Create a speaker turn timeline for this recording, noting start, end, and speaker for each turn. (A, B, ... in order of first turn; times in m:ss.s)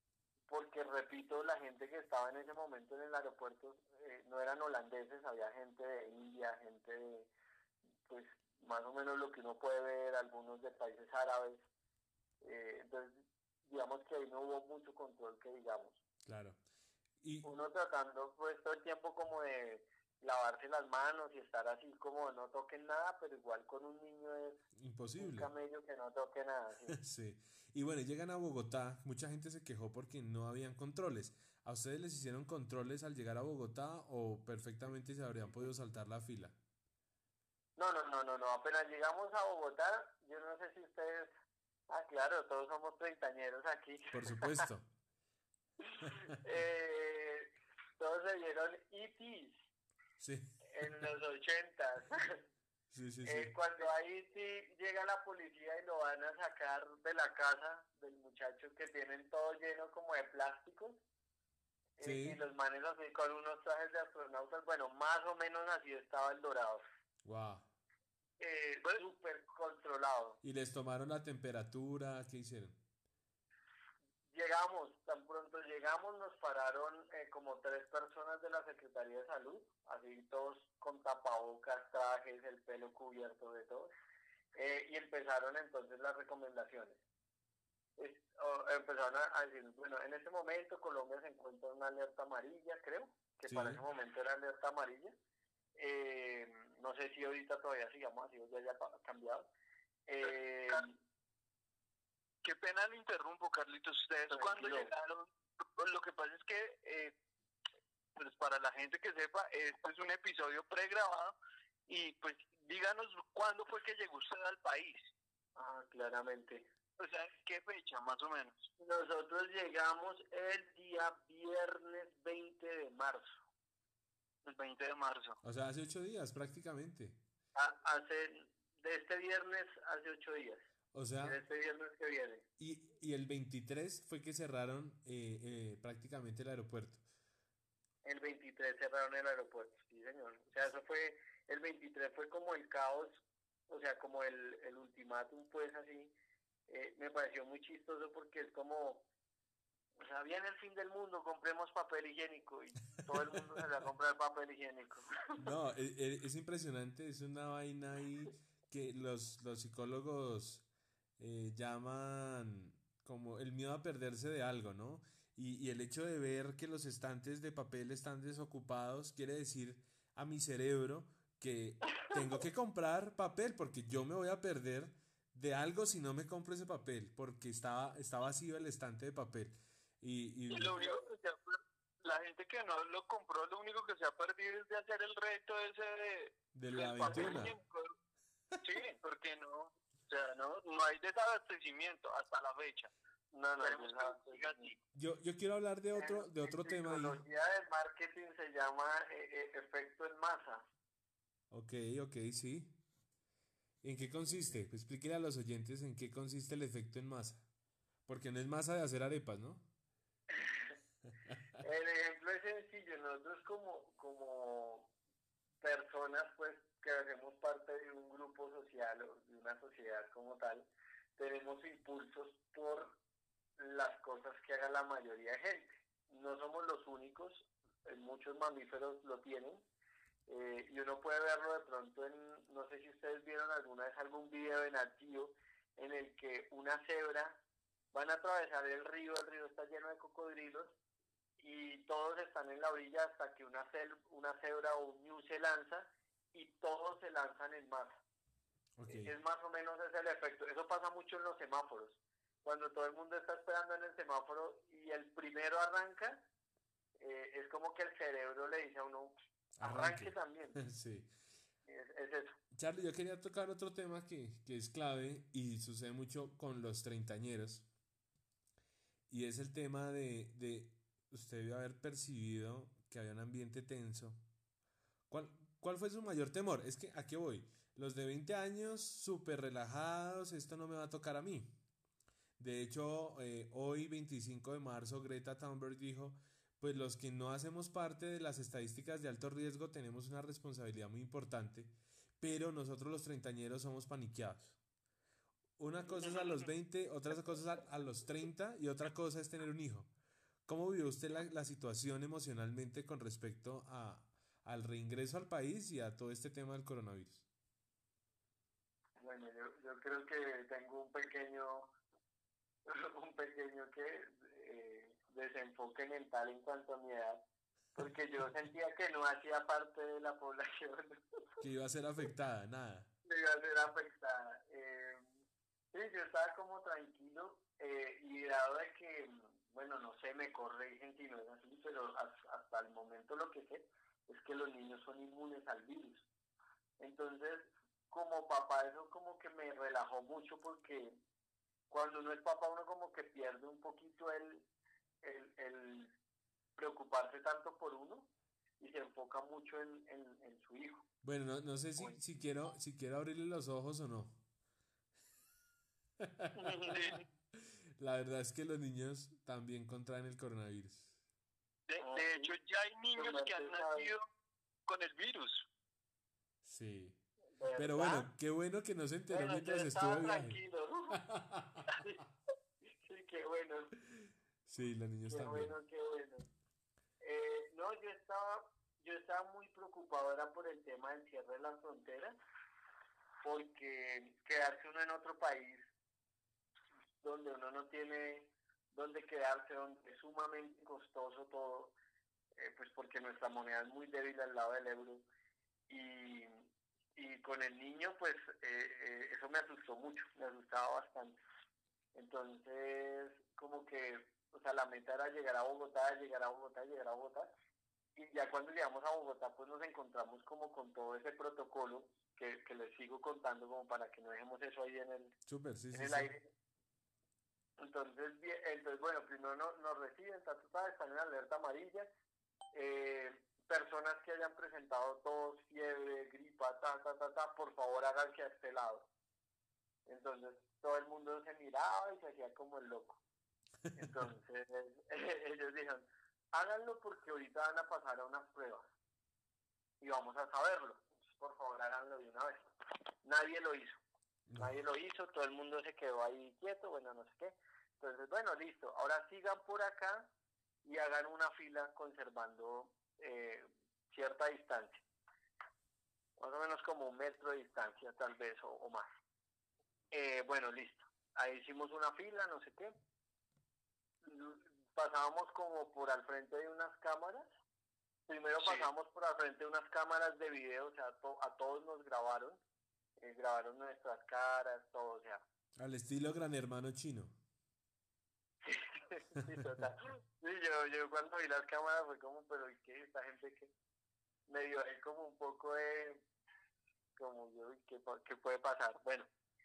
0:00.5-0:07.3 A
0:08.1-0:11.7 A
0:12.4-0:16.0 A
0:16.2-0:16.6 B
0:17.2-0:17.5 B
0:17.4-0:24.6 A
0:24.8-0:25.5 B
0:25.2-0:27.0 A
0:26.9-0:36.6 B
0:37.8-0:41.3 A
0:41.9-0:44.7 A
0:44.1-0:44.9 B
0:46.0-0:49.7 A
0:46.0-0:46.3 B
0:50.2-0:51.0 B
0:50.7-0:52.4 A
0:52.9-0:53.5 B
0:53.2-1:01.0 A
1:02.0-1:06.8 A
1:02.0-1:02.4 B
1:07.2-1:07.7 B
1:08.4-1:10.4 A
1:10.4-1:12.8 B
1:14.3-1:23.9 A
1:24.6-1:27.0 A
1:28.0-1:35.2 A
1:33.5-1:33.8 B
1:35.8-1:39.5 A
1:40.1-1:41.0 A
1:40.3-1:40.8 C
1:42.4-1:47.2 C
1:44.3-1:44.9 A
1:48.2-1:51.4 C
1:51.9-1:55.0 C
1:55.6-1:56.7 A
1:57.0-1:58.7 C
1:58.8-2:03.4 A
2:04.5-2:05.4 C
2:05.4-2:07.2 B
2:07.6-2:10.6 A
2:10.9-2:11.4 B
2:11.2-2:12.4 A
2:12.6-2:17.0 B
2:18.0-2:26.1 A
2:26.7-2:29.1 A
2:30.0-2:35.4 A
2:35.4-2:40.7 B
2:41.2-3:00.8 B
3:00.5-3:08.0 C
3:06.5-3:07.6 B
3:07.0-3:07.3 A
3:08.6-3:12.9 C
3:13.3-3:14.7 A
3:13.6-3:14.8 C
3:15.0-3:17.2 B
3:15.9-3:20.7 A
3:21.5-3:22.8 B
3:23.8-3:27.4 B
3:28.1-3:29.6 B
3:30.3-3:30.8 A
3:31.6-3:34.9 A
3:35.6-3:43.0 A
3:43.6-3:49.6 A
3:50.3-3:57.4 A
3:57.9-4:00.8 A
4:01.4-4:08.0 A
4:08.8-4:09.1 B
4:08.9-4:16.3 A
4:17.0-4:20.6 A
4:19.6-4:21.1 B
4:21.7-4:22.4 A
4:22.5-4:27.7 B
4:29.1-4:34.2 B
4:35.1-4:41.6 B
4:42.4-4:54.6 B
4:55.6-4:59.9 B
5:00.5-5:07.2 B
5:09.0-5:11.7 A
5:12.7-5:17.2 A
5:17.8-5:21.0 A
5:21.4-5:22.9 B
5:23.0-5:25.0 A
5:25.7-5:36.1 A
5:36.8-5:41.0 A
5:41.7-5:44.5 A
5:45.0-5:45.9 A
5:46.6-5:50.8 A
5:51.0-5:54.2 B
5:56.0-5:56.5 B
5:56.4-5:56.9 A
5:56.7-5:57.0 C
5:57.3-6:00.9 B
6:01.7-6:04.0 C
6:01.8-6:02.3 A
6:03.0-6:03.9 A
6:04.7-6:05.5 C
6:06.4-6:07.0 B
6:07.4-6:08.1 A
6:07.6-6:10.4 B
6:09.1-6:11.0 A
6:11.0-6:11.7 B
6:11.7-6:12.0 A
6:12.8-6:13.7 A
6:13.9-6:15.6 B
6:15.1-6:16.3 A
6:17.0-6:22.2 A
6:23.2-6:25.6 A
6:27.0-6:31.8 A
6:32.4-6:35.1 A
6:35.7-6:36.4 A
6:37.0-6:41.2 A
6:42.0-6:47.3 A
6:48.0-6:55.2 A
6:55.3-6:56.1 B
6:55.7-6:56.3 A
6:57.6-7:01.9 A
7:02.5-7:08.9 A
7:09.9-7:13.0 A
7:13.7-7:14.1 B
7:13.8-7:18.7 A
7:19.8-7:22.4 A
7:23.0-7:23.8 A
7:24.3-7:24.6 B
7:24.4-7:30.1 A
7:30.6-7:34.8 A
7:36.2-7:38.9 A
7:39.9-7:42.8 A
7:44.0-7:47.3 A
7:48.1-7:52.4 A
7:48.4-7:48.7 C
7:53.0-7:55.2 A
7:55.6-7:57.2 B
7:58.4-8:03.5 A
8:04.3-8:06.0 A
8:07.0-8:09.1 A